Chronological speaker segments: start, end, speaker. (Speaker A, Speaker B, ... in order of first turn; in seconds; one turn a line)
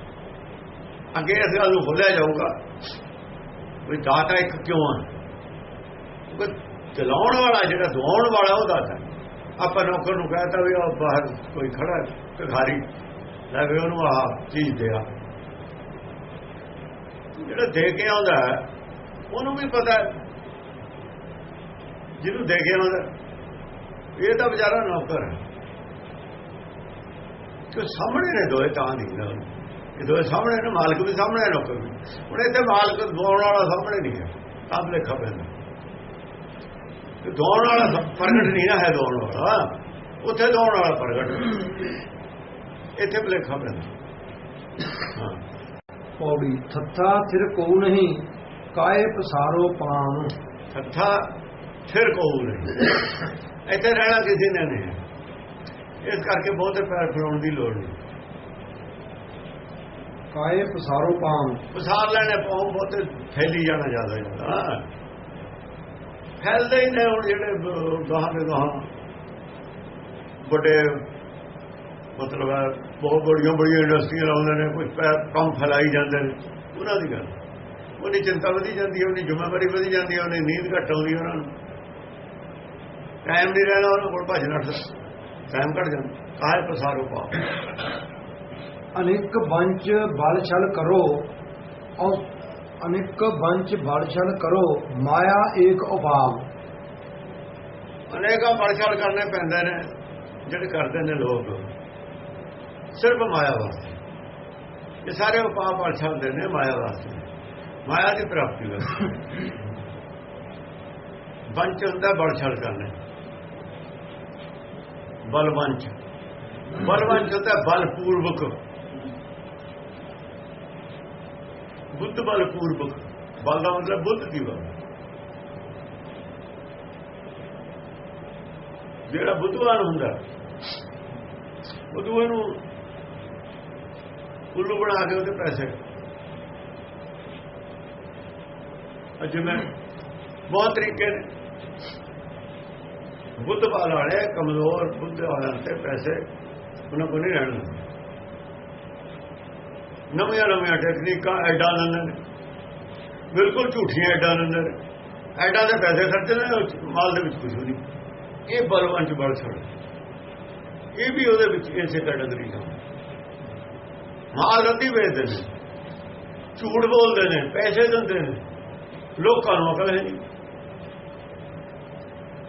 Speaker A: 1.1-2.6
Speaker A: 3.9-5.1
Speaker A: 6.3-9.1
Speaker A: 9.6-12.8
Speaker A: 13.5-15.1
Speaker A: 17.4-18.7
Speaker A: 19.3-20.2
Speaker A: 22.2-23.1
Speaker A: 24.2-25.4
Speaker A: 27.7-35.5
Speaker A: 37.2-41.9
Speaker A: 43.0-43.9
Speaker A: 45.1-45.4
Speaker B: 46.2-50.3
Speaker A: 50.7-51.3
Speaker A: 51.9-53.0
Speaker A: 53.7-55.0
Speaker A: 56.0-58.0
Speaker B: 60.3-61.6
Speaker A: 61.7-64.8
Speaker A: 66.4-68.9
Speaker A: 70.4-71.1
Speaker A: 72.2-77.3
Speaker A: 78.0-81.5
Speaker A: 83.2-84.9
Speaker A: 85.5-87.5
Speaker B: 89.0-91.3
Speaker B: 92.0-96.5
Speaker A: 98.1-99.8
Speaker A: 100.5-101.6
Speaker A: 103.0-104.0
Speaker A: 105.0-107.3
Speaker A: 107.9-109.1
Speaker A: 111.5-112.9
Speaker A: 115.3-116.0
Speaker A: 116.7-118.6
Speaker A: 121.9-124.7
Speaker A: 129.1-130.2
Speaker A: 131.9-132.6
Speaker A: 134.5-135.8
Speaker A: 139.2-139.7
Speaker A: 140.5-141.3
Speaker A: 143.4-146.2
Speaker A: 146.9-147.9
Speaker A: 150.1-152.2
Speaker A: 153.3-154.8
Speaker A: 155.4-157.8
Speaker A: 158.5-159.7
Speaker A: 161.0-162.8
Speaker A: 164.3-165.5
Speaker A: 166.6-168.4
Speaker A: 169.2-170.2